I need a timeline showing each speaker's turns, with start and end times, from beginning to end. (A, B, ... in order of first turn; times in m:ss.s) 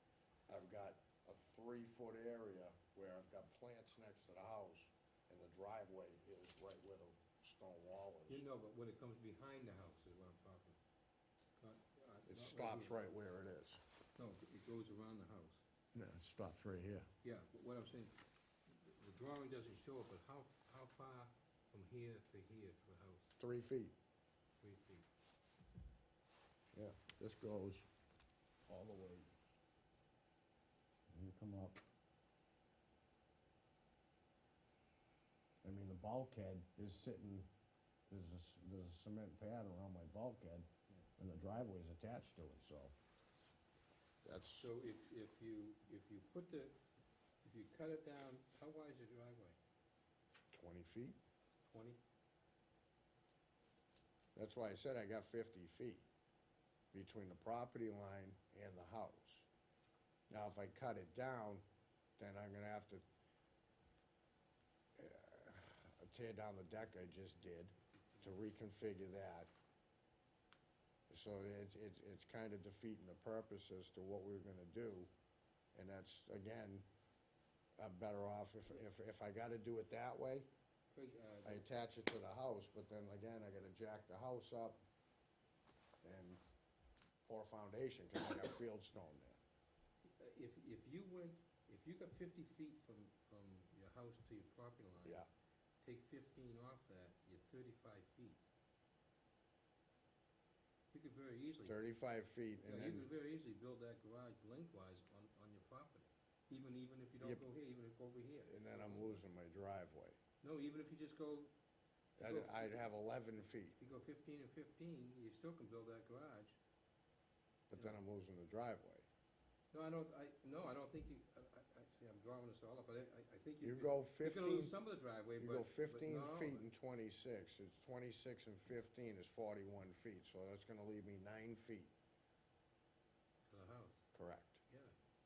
0:00.5-0:08.4 A
0:08.3-0:10.8 B
0:11.6-0:13.0 B
0:12.3-0:13.8 A
0:14.2-0:15.6 B
0:15.9-0:17.1 A
0:17.2-0:23.3 B
0:23.4-0:23.9 A
0:24.6-0:25.0 B
0:26.7-0:27.9 A
0:28.7-0:29.3 A
0:31.1-0:31.8 A
0:35.6-0:37.5 A
0:38.1-0:42.9 A
0:44.2-0:44.7 A
0:44.6-0:46.8 B
0:47.4-0:49.6 B
0:50.5-0:51.2 A
0:51.6-0:52.0 B
0:54.4-0:56.1 A
0:56.9-0:59.5 A
1:00.3-1:01.6 A
1:02.2-1:03.0 A
1:05.0-1:09.5 A
1:11.1-1:15.1 A
1:15.7-1:16.8 A
1:17.8-1:20.5 A
1:20.9-1:21.7 B
1:21.4-1:24.8 A
1:26.0-1:26.4 A
1:27.2-1:29.4 A
1:30.0-1:35.2 B
1:35.0-1:35.3 A
1:35.8-1:38.4 B
1:40.9-1:41.8 B
1:41.6-1:43.1 A
1:42.6-1:49.2 B
1:47.2-1:47.4 A
1:48.4-1:50.2 A
1:50.4-1:51.5 B
1:52.2-1:52.9 B
1:52.2-1:53.8 A
1:53.8-1:56.6 B
1:57.7-1:59.1 A
1:57.7-1:58.0 B
1:59.7-2:06.7 B
2:03.6-2:04.8 A
2:05.4-2:11.9 A
2:13.4-2:14.0 B
2:14.1-2:14.6 A
2:14.7-2:14.9 B